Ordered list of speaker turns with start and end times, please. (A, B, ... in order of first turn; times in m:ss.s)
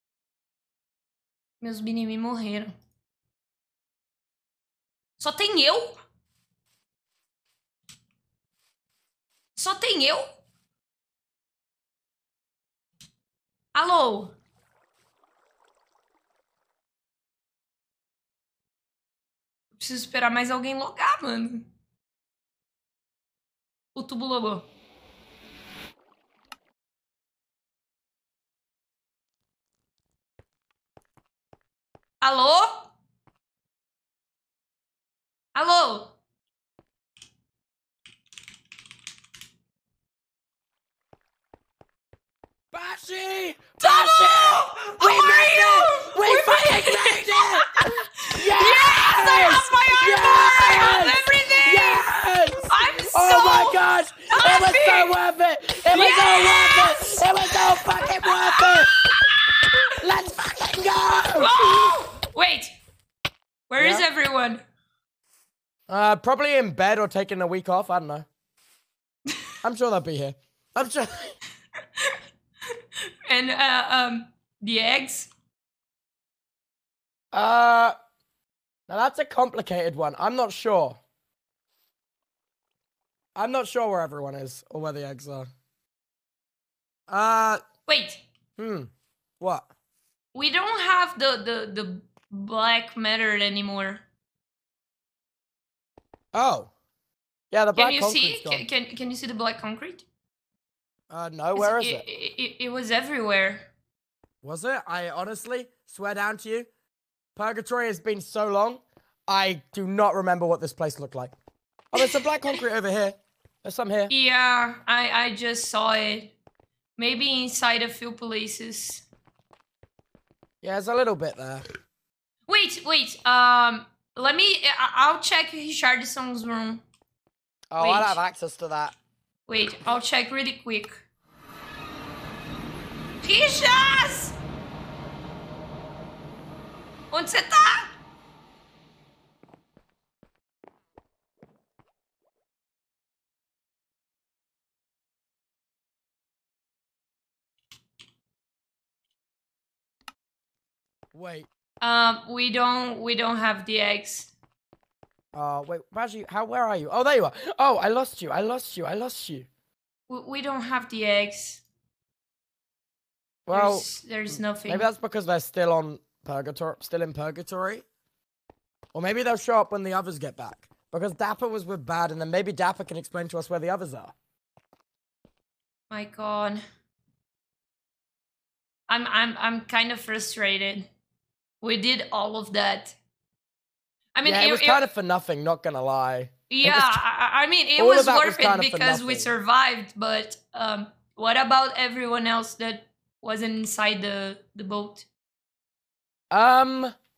0:01.6-0:02.7 A
0:05.2-0:06.0 A
0:09.6-0:10.3 A
0:13.7-0:14.4 A
0:19.7-0:21.7 A
0:24.0-0:24.7 A
0:32.2-0:32.9 A
0:35.6-0:36.2 A
0:42.7-0:47.7 B
0:43.8-0:52.0 A
0:48.3-0:58.9 B
0:52.7-0:55.2 A
0:55.9-0:59.9 A
1:00.0-1:01.9 B
1:01.4-1:02.8 A
1:03.7-1:04.6 A
1:03.8-1:04.1 B
1:05.9-1:08.3 B
1:09.6-1:11.4 B
1:13.3-1:15.3 A
1:17.3-1:18.0 B
1:18.9-1:21.0 B
1:23.4-1:25.5 B
1:27.1-1:27.6 B
1:27.8-1:28.2 A
1:28.6-1:29.7 B
1:30.3-1:34.0 A
1:36.3-1:36.7 B
1:37.5-1:38.6 B
1:37.8-1:40.0 A
1:41.1-1:42.0 B
1:41.6-1:43.7 A
1:44.4-1:46.7 B
1:47.4-1:51.3 B
1:51.9-1:54.1 B
1:54.1-1:56.4 A
1:57.0-1:59.0 A
2:00.6-2:01.7 B
2:02.5-2:06.8 A
2:07.7-2:09.0 B
2:07.8-2:08.2 A
2:09.5-2:11.0 A
2:13.2-2:14.4 A
2:17.1-2:17.9 A
2:31.1-2:31.5 B
2:31.8-2:34.3 A
2:35.3-2:39.5 B
2:40.1-2:41.6 A
2:43.5-2:47.8 B
2:43.5-2:44.9 A
2:48.9-2:54.1 B
2:55.9-2:56.6 A
2:58.9-3:00.9 A
3:01.6-3:03.0 A
3:04.2-3:04.9 A
3:04.2-3:07.0 B
3:06.5-3:15.1 A
3:07.8-3:09.4 B
3:16.3-3:16.9 B